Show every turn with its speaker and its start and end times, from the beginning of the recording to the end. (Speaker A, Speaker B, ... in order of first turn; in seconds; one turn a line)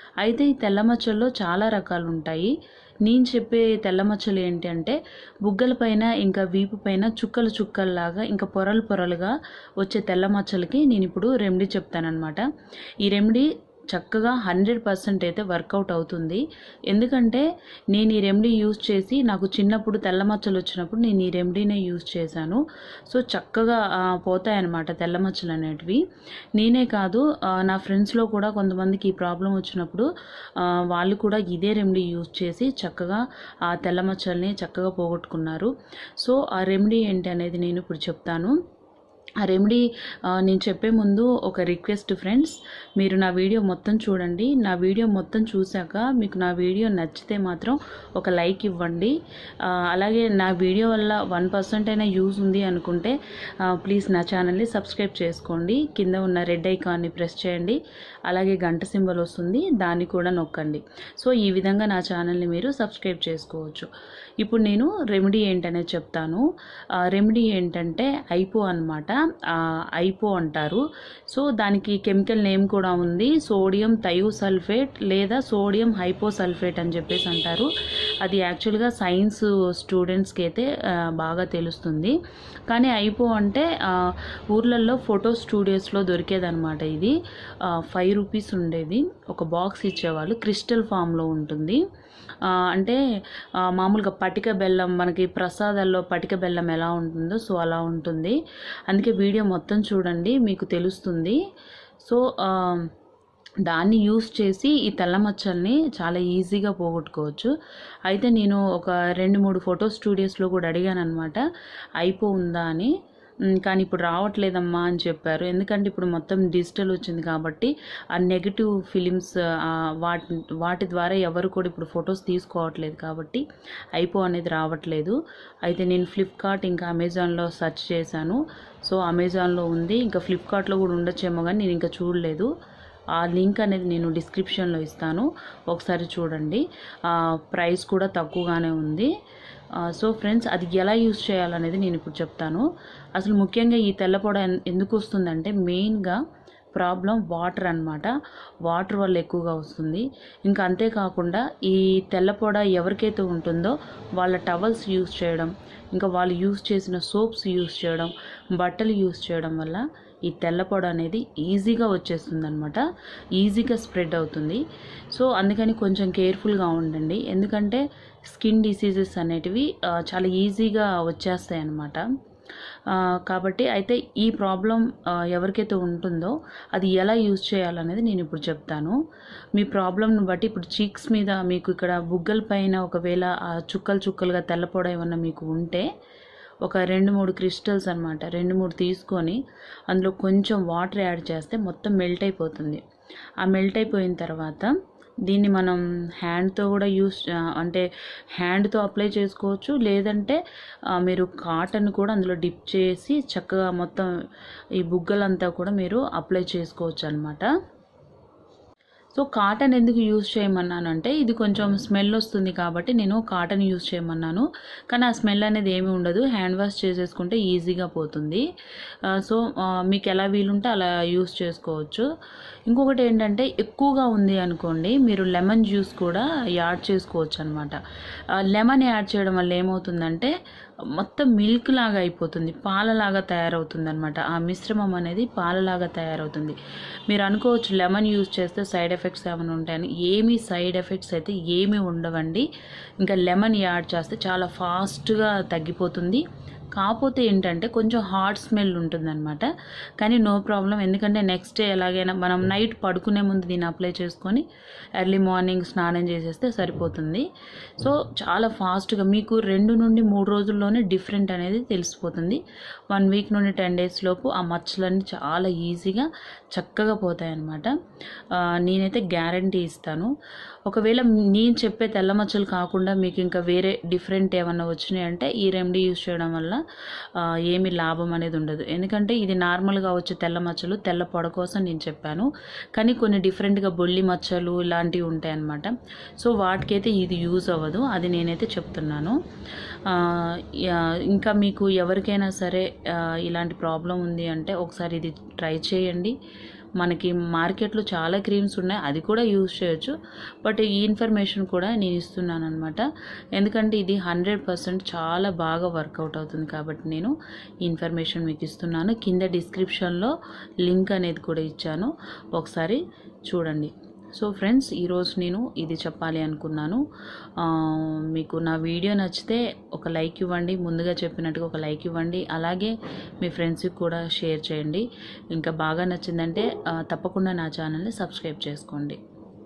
Speaker A: 0.2-2.5
Speaker A: 3.0-12.5
Speaker A: 13.0-26.0
Speaker A: 26.6-38.6
Speaker A: 39.4-63.9
Speaker A: 64.4-66.4
Speaker A: 67.1-77.7
Speaker A: 78.2-82.2
Speaker A: 82.7-91.8
Speaker A: 92.4-93.0
Speaker A: 93.6-98.4
Speaker A: 98.9-101.4
Speaker A: 102.0-102.9
Speaker A: 103.7-107.5
Speaker A: 108.1-111.4
Speaker A: 112.0-112.9
Speaker A: 113.5-132.5
Speaker A: 133.1-139.1
Speaker A: 139.8-146.2
Speaker A: 146.7-162.8
Speaker A: 163.3-172.1
Speaker A: 172.9-179.0
Speaker A: 179.5-185.8
Speaker A: 186.6-192.8
Speaker A: 193.4-200.4
Speaker A: 200.9-204.1
Speaker A: 204.8-207.5
Speaker A: 209.1-218.4
Speaker A: 219.0-222.1
Speaker A: 222.7-227.8
Speaker A: 228.3-230.3
Speaker A: 230.9-242.5
Speaker A: 243.0-254.4
Speaker A: 255.0-270.1
Speaker A: 270.6-296.1
Speaker A: 296.8-316.8
Speaker A: 317.4-329.0